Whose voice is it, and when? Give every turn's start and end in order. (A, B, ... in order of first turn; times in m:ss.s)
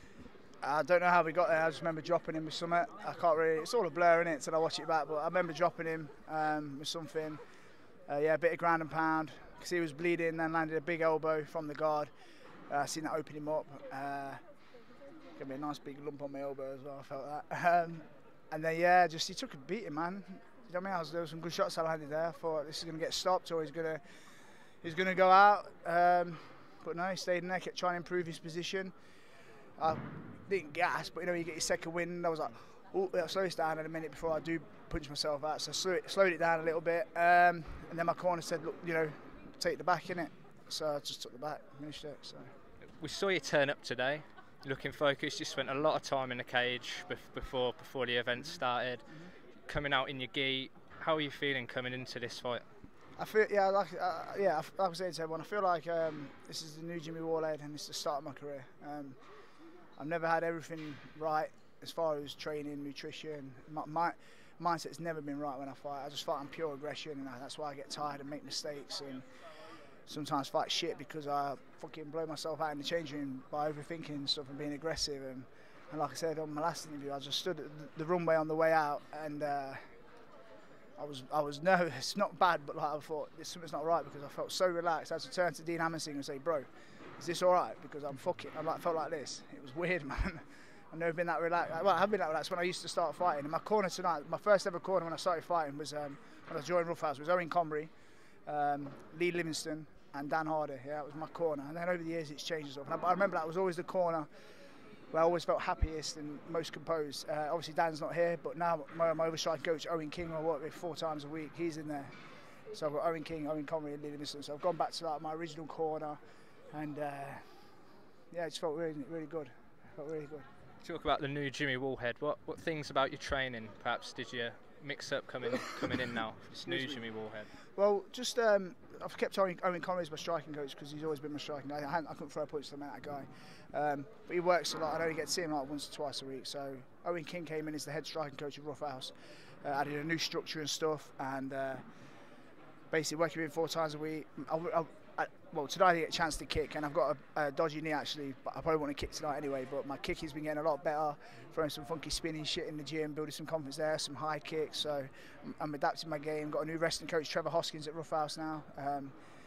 0:00.6-0:07.4 A
0:08.1-0:12.1 A
0:12.7-0:14.4 A
0:15.4-0:28.9 A
0:29.8-0:42.5 A
0:43.0-0:49.1 B
0:48.4-0:49.3 A
0:49.7-0:52.6 B
0:53.2-0:59.2 A
1:00.0-1:09.3 A
1:10.1-1:19.8 A
1:21.0-1:37.9 A
1:38.5-1:44.3 A
1:45.1-1:52.1 A
1:52.7-1:56.2 A
1:56.7-1:57.8 A
1:58.3-2:00.5 A
2:00.8-2:07.5 B
2:06.6-2:07.1 A
2:07.8-2:21.9 A
2:22.9-2:39.2 A